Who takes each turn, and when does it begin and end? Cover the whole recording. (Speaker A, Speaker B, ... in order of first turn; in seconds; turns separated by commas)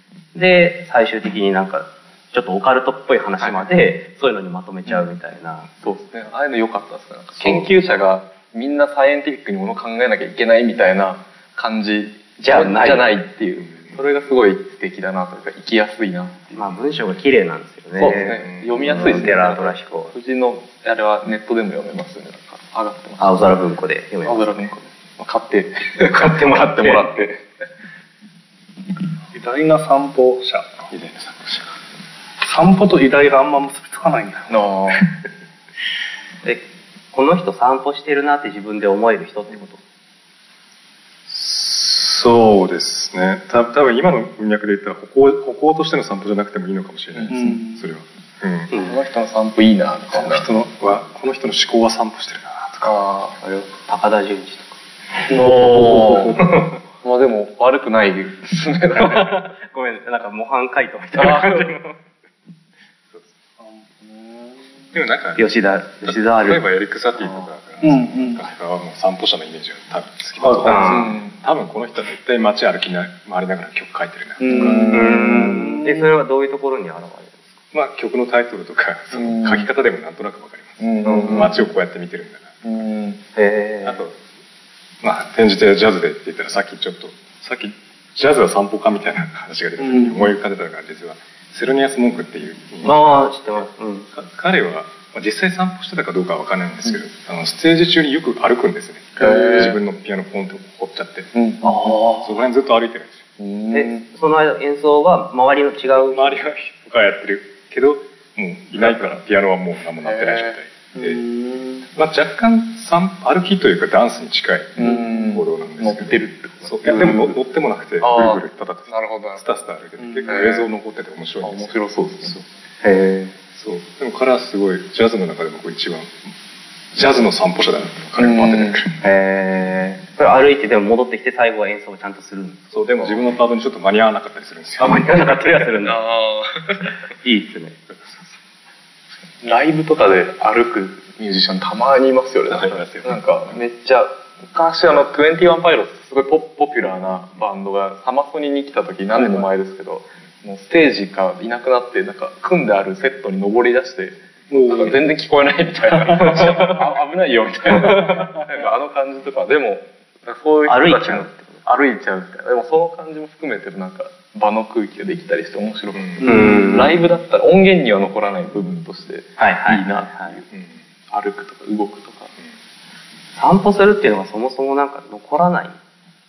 Speaker A: 0.3-5.7, Speaker B: 3.4-3.7, Speaker B: 5.8-16.6, Speaker A: 7.4-7.7, Speaker A: 12.4-13.1, Speaker A: 16.5-20.1, Speaker B: 18.0-23.6, Speaker C: 18.2-18.8, Speaker A: 23.2-24.8, Speaker B: 24.2-27.4, Speaker A: 26.0-27.2, Speaker D: 29.3-30.7, Speaker C: 30.9-31.7, Speaker D: 32.4-34.5, Speaker B: 34.5-35.0, Speaker A: 36.4-39.8, Speaker C: 41.3-48.7, Speaker B: 47.1-47.6, Speaker D: 47.3-47.8, Speaker A: 48.7-49.0, Speaker B: 48.8-50.5, Speaker C: 50.1-53.0, Speaker B: 52.8-53.4, Speaker A: 53.4-54.8, Speaker A: 55.3-56.6, Speaker B: 55.3-59.5, Speaker D: 55.5-56.4, Speaker A: 59.0-62.0, Speaker B: 61.1-61.8, Speaker D: 63.6-64.7, Speaker C: 64.9-65.4, Speaker A: 65.4-66.6, Speaker C: 66.0-75.1, Speaker D: 67.8-68.4, Speaker D: 70.4-71.0, Speaker A: 70.7-71.1, Speaker B: 70.9-71.3, Speaker D: 74.4-75.9, Speaker B: 74.5-75.9, Speaker A: 74.9-77.6, Speaker C: 77.7-82.6, Speaker B: 79.2-79.7, Speaker B: 80.8-81.6, Speaker A: 81.0-81.5, Speaker B: 82.6-83.2, Speaker A: 83.3-84.1, Speaker C: 83.8-84.2, Speaker C: 85.0-93.2, Speaker D: 89.8-90.3, Speaker A: 92.8-94.1, Speaker C: 94.1-101.3, Speaker B: 99.2-99.8, Speaker B: 101.3-102.0, Speaker C: 102.0-103.2, Speaker B: 103.4-104.0, Speaker A: 103.7-106.4, Speaker C: 106.0-111.2, Speaker B: 108.8-109.2, Speaker B: 110.0-110.6, Speaker D: 111.0-111.8, Speaker C: 111.9-122.4, Speaker B: 114.8-117.4, Speaker B: 118.0-119.4, Speaker D: 120.0-120.5, Speaker B: 120.3-120.7, Speaker B: 121.4-122.4, Speaker A: 122.8-123.3, Speaker C: 123.5-126.2, Speaker C: 126.9-129.0, Speaker B: 128.2-128.8, Speaker A: 129.0-132.7, Speaker C: 132.7-135.1, Speaker A: 134.8-136.0, Speaker B: 135.8-137.0, Speaker A: 137.2-137.8, Speaker B: 139.4-170.5, Speaker C: 142.5-143.2, Speaker D: 154.5-155.0, Speaker D: 156.0-156.8, Speaker D: 157.8-158.4, Speaker A: 160.7-161.6, Speaker C: 165.9-166.2, Speaker D: 166.2-166.7, Speaker A: 166.2-167.0, Speaker A: 169.4-170.3, Speaker C: 170.5-170.8, Speaker B: 171.1-172.3, Speaker A: 173.3-175.8